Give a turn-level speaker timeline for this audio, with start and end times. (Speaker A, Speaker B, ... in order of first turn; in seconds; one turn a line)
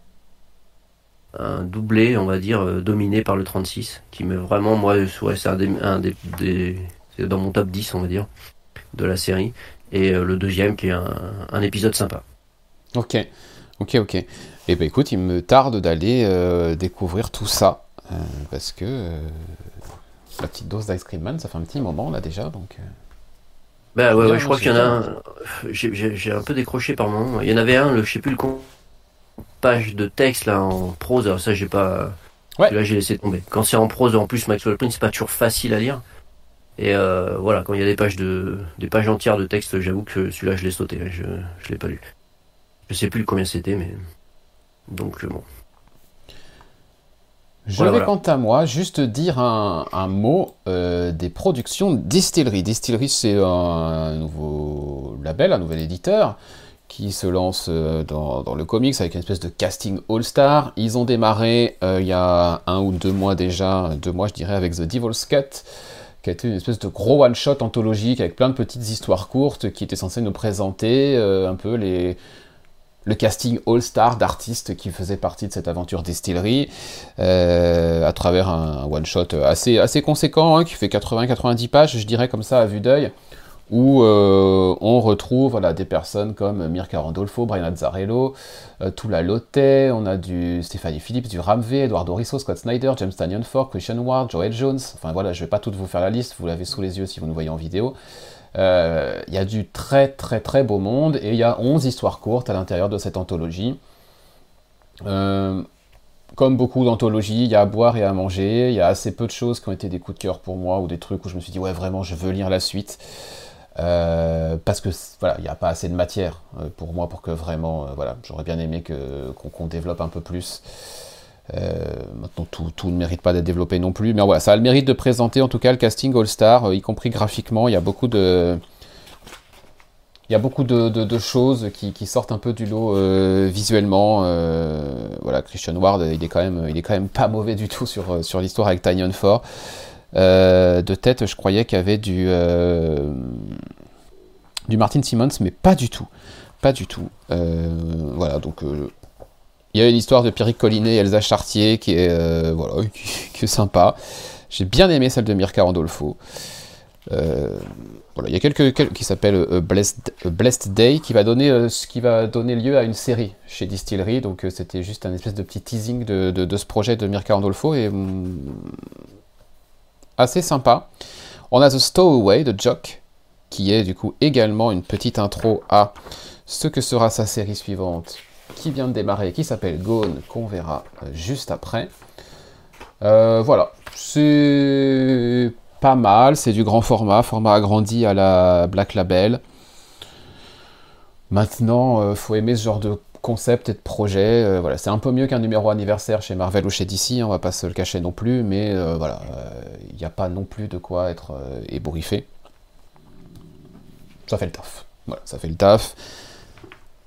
Speaker A: 1.4-8.3
Speaker A: 8.9-12.2
Speaker B: 12.9-13.3
Speaker B: 13.8-19.6
Speaker B: 20.3-22.8
Speaker A: 23.9-28.7
Speaker B: 24.1-25.0
Speaker A: 29.6-32.1
Speaker A: 32.7-36.0
Speaker A: 36.8-42.0
Speaker A: 42.9-44.0
Speaker A: 44.9-45.5
Speaker B: 47.7-65.7
Speaker A: 47.8-48.1
Speaker B: 66.2-72.2
Speaker B: 73.0-83.1
Speaker B: 83.7-98.0
Speaker B: 98.5-103.8
Speaker B: 105.0-105.6
Speaker B: 106.3-113.0
Speaker B: 113.8-120.6
Speaker B: 121.5-128.6
Speaker B: 130.3-139.4
Speaker B: 140.1-143.6
Speaker B: 144.7-146.1
Speaker B: 146.6-148.9
Speaker B: 149.7-154.0
Speaker B: 154.5-156.2
Speaker B: 157.1-168.8
Speaker B: 170.2-170.9
Speaker B: 171.5-181.9
Speaker B: 183.0-189.4
Speaker B: 191.3-202.3
Speaker B: 204.3-206.0